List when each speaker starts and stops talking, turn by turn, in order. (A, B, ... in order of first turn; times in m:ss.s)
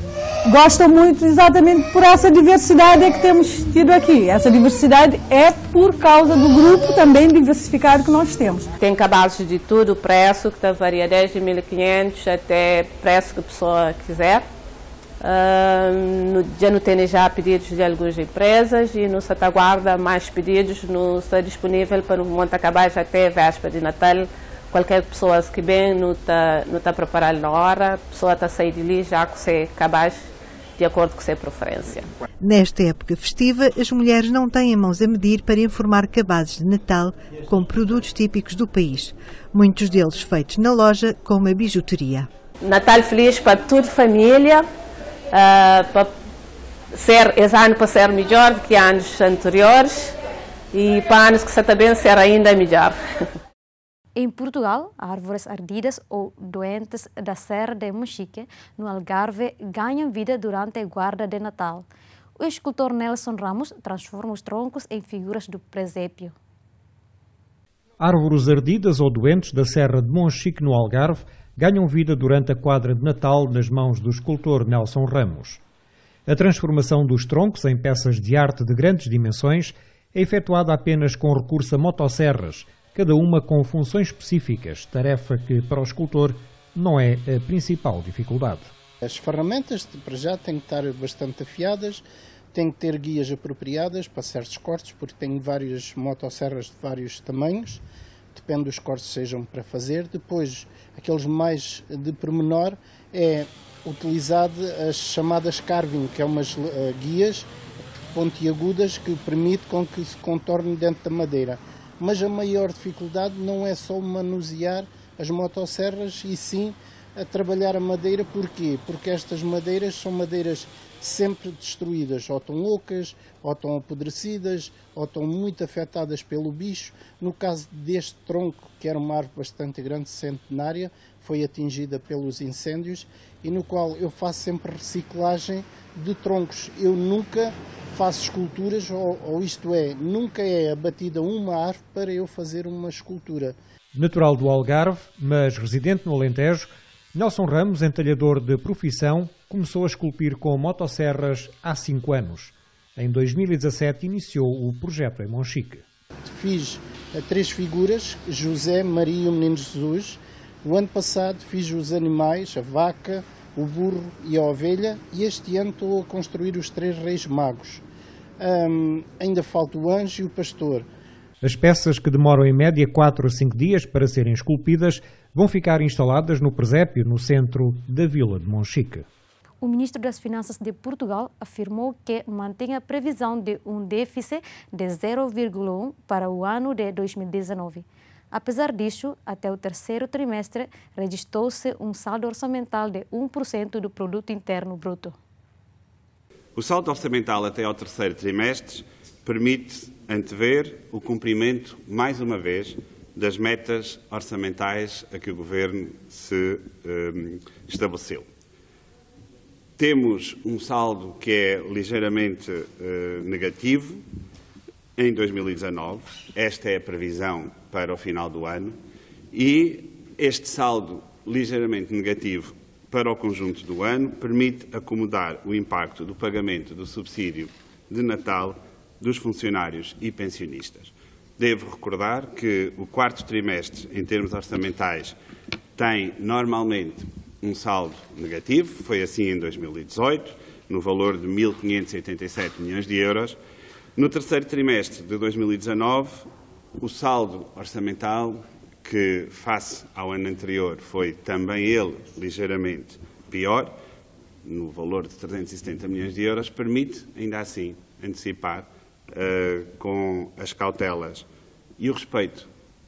0:00.5-0:08.7 A
0:08.8-0:14.5 B
0:15.2-0:30.2 B
0:30.8-0:32.1 B
0:32.4-0:42.3 C
0:42.6-0:44.6 B
0:45.3-0:46.1 B
0:46.9-0:50.1 B
0:50.7-0:53.0 B
0:54.2-1:01.9 D
1:02.4-1:06.4 D
1:08.0-1:15.6 E
1:16.3-1:28.7 E
1:29.0-1:37.8 F
1:38.3-1:47.5 F
1:48.1-2:23.6 F
2:23.9-2:35.8 E
2:36.2-2:47.8 F
2:48.4-2:50.9 F
2:51.4-2:59.1 E
2:59.6-3:15.2 D
3:16.6-3:28.3 G
3:29.8-3:34.1 G
3:35.0-3:38.8 G
3:39.3-3:55.2 G
3:55.8-4:03.4 G
4:04.0-4:13.8 G
4:14.4-4:22.5 G